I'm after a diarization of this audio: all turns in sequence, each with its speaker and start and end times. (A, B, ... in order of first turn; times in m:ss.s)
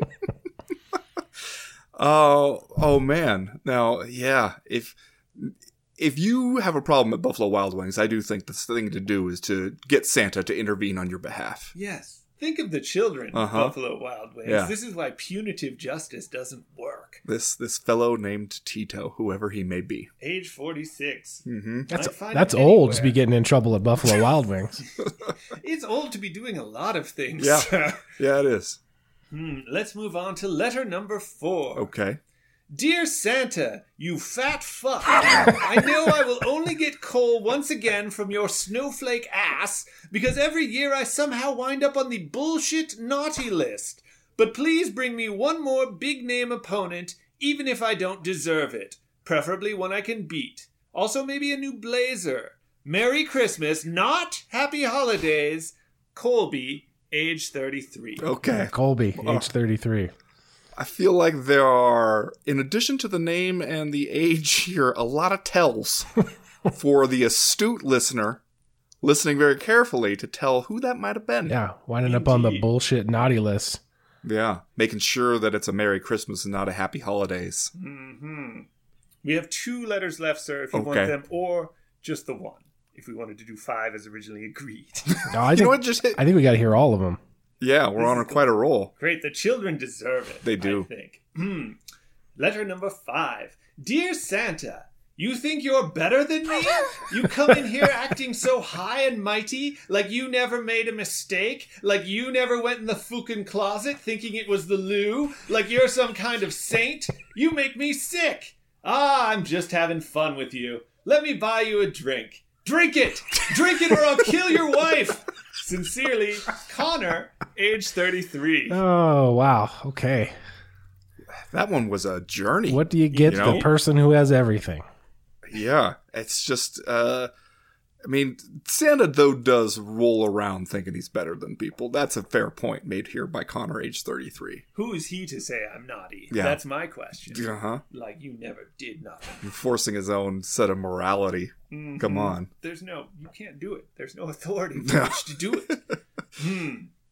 0:02.0-0:11.7 A
0:11.7-0:17.2 B
0:13.3-0:13.7 A
0:14.4-0:14.7 A
0:17.3-0:20.1 A
0:20.2-0:23.2 B
0:21.4-0:21.9 A
0:21.9-0:24.8 C
0:25.0-0:28.0 B
0:27.4-0:28.8 A
0:29.3-0:31.9 B
0:31.7-0:32.2 A
0:32.7-0:58.4 B
0:58.2-0:59.5 A
0:58.5-1:00.1 C
1:00.8-1:06.2 A
1:06.7-1:08.4 A
1:09.0-1:11.6 A
1:11.5-1:13.8 C
1:12.0-1:12.7 B
1:14.2-1:17.7 A
1:17.7-1:18.7 B
1:19.2-1:25.3 B
1:20.7-1:21.2 A
1:25.3-1:27.2 C
1:25.5-1:26.2 A
1:27.6-1:28.9 A
1:28.0-1:31.8 B
1:30.4-1:30.9 A
1:32.4-1:58.8 B
1:58.7-2:00.4 C
2:01.3-2:03.7 A
2:02.7-2:04.8 C
2:03.1-2:03.7 B
2:05.5-2:07.3 A
2:08.0-2:14.6 A
2:14.7-2:19.5 B
2:16.3-2:16.6 A
2:17.3-2:17.8 A
2:19.4-2:22.5 A
2:21.7-2:26.9 B
2:24.8-2:25.2 A